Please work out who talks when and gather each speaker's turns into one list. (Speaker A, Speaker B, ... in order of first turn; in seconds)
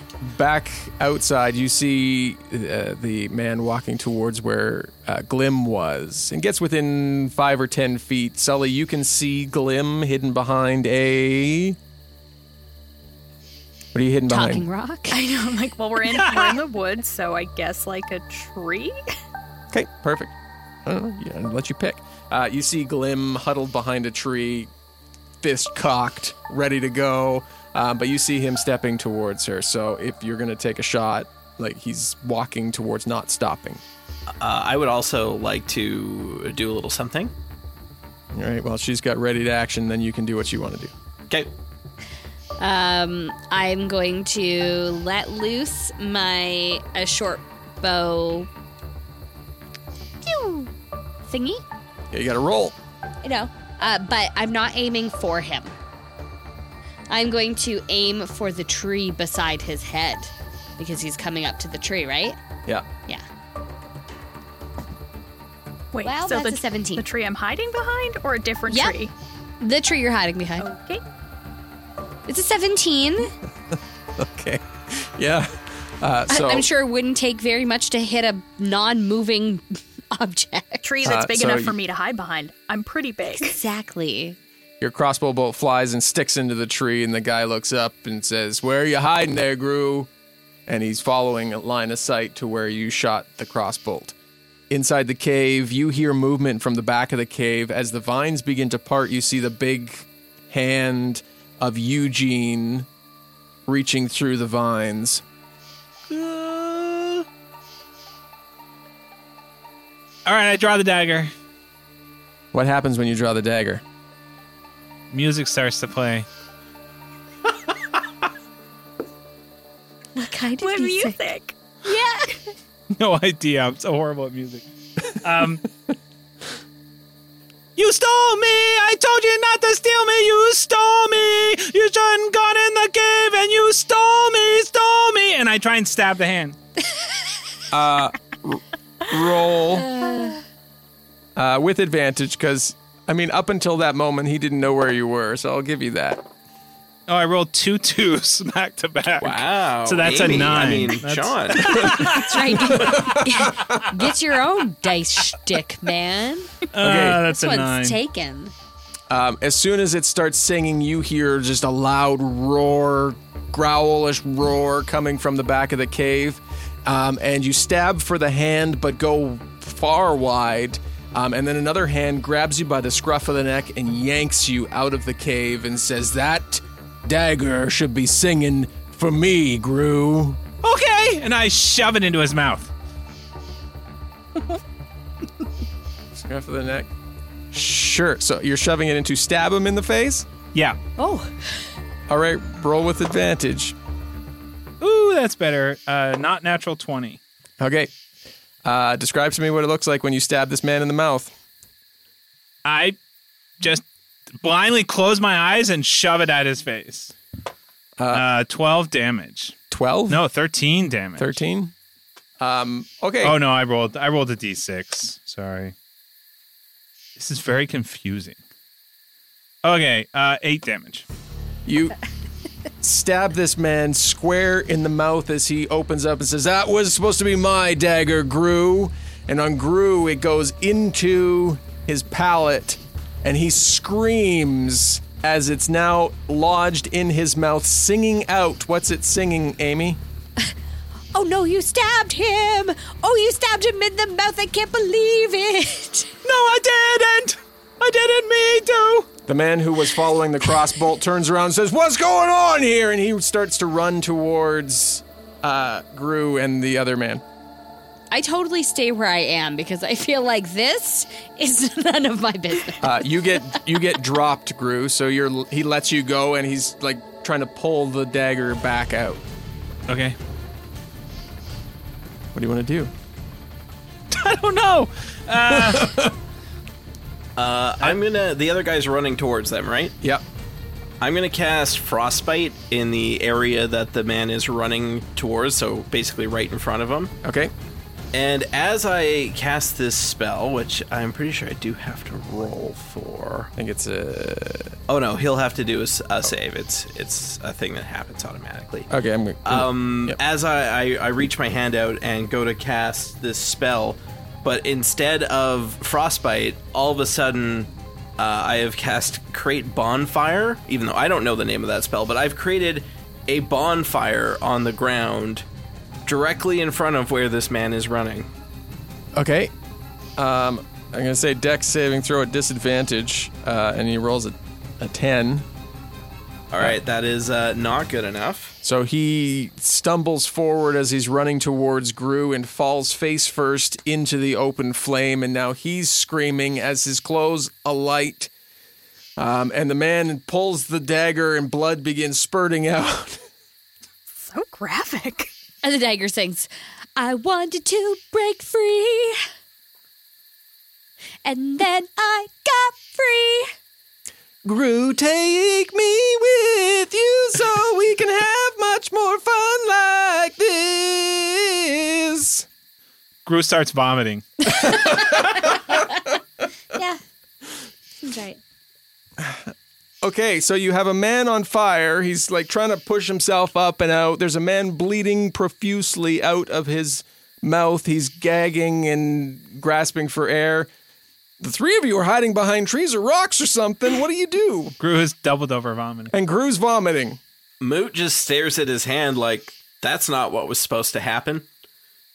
Speaker A: 0.2-11.8, 13.9-14.7, 19.7-20.3, 20.8-24.7, 25.4-33.8, 38.3-40.9, 52.1-52.7, 73.7-76.7, 81.0-81.7, 84.8-90.1, 90.7-94.1, 94.7-102.9, 103.7-105.2, 112.5-113.8, 137.7-139.9, 141.4-146.3, 152.6-153.7, 156.8-157.2, 159.1-180.4, 186.2-186.9, 187.5-190.3, 192.1-193.7, 197.6-197.9, 198.6-201.3, 208.0-208.2, 209.7-210.2, 211.2-211.7, 212.4-213.4, 221.7-221.9, 222.8-240.0, 249.3-257.2, 262.8-269.2, 272.3-272.9, 275.5-276.1, 287.2-287.5, 292.3-294.8, 298.9-300.2, 319.1-319.5, 320.2-325.4, 328.6-338.3, 339.2-343.2, 354.4-362.5, 364.6-365.8, 369.2-380.7, 381.4-384.8, 386.1-387.2
Speaker B: 14.3-15.2, 42.6-48.5, 50.2-50.7, 51.3-51.6, 53.2-55.7, 57.1-62.4, 66.0-67.0, 68.7-69.0, 69.6-70.7, 72.3-73.3, 76.3-80.9, 83.4-84.4, 120.2-121.2, 121.9-122.3, 139.8-140.4, 151.9-156.7, 157.3-158.5, 191.0-191.3, 241.1-246.1, 258.1-263.0, 345.6-349.2, 351.2-353.5, 366.7-367.0, 368.0-368.4
Speaker C: 15.1-18.9, 65.9-69.1, 70.6-71.0, 80.8-83.6, 120.6-121.5, 344.1-345.3
Speaker D: 16.1-16.5, 106.1-107.2, 110.3-111.3, 115.1-116.3, 123.0-125.7, 127.8-136.6, 147.1-153.1, 156.7-158.0, 180.6-182.7, 194.8-197.2, 202.6-203.0, 204.4-207.1, 208.1-209.6, 210.1-211.3, 213.2-215.7, 217.2-218.4, 219.6-221.1, 246.2-249.1, 269.9-270.1, 274.1-276.1, 363.3-364.2, 384.8-386.1
Speaker E: 34.4-37.3, 149.2-151.7, 277.4-279.9, 281.0-287.1, 288.1-292.3, 294.9-298.9, 299.4-315.4, 316.1-318.3, 326.5-328.6, 387.6-391.4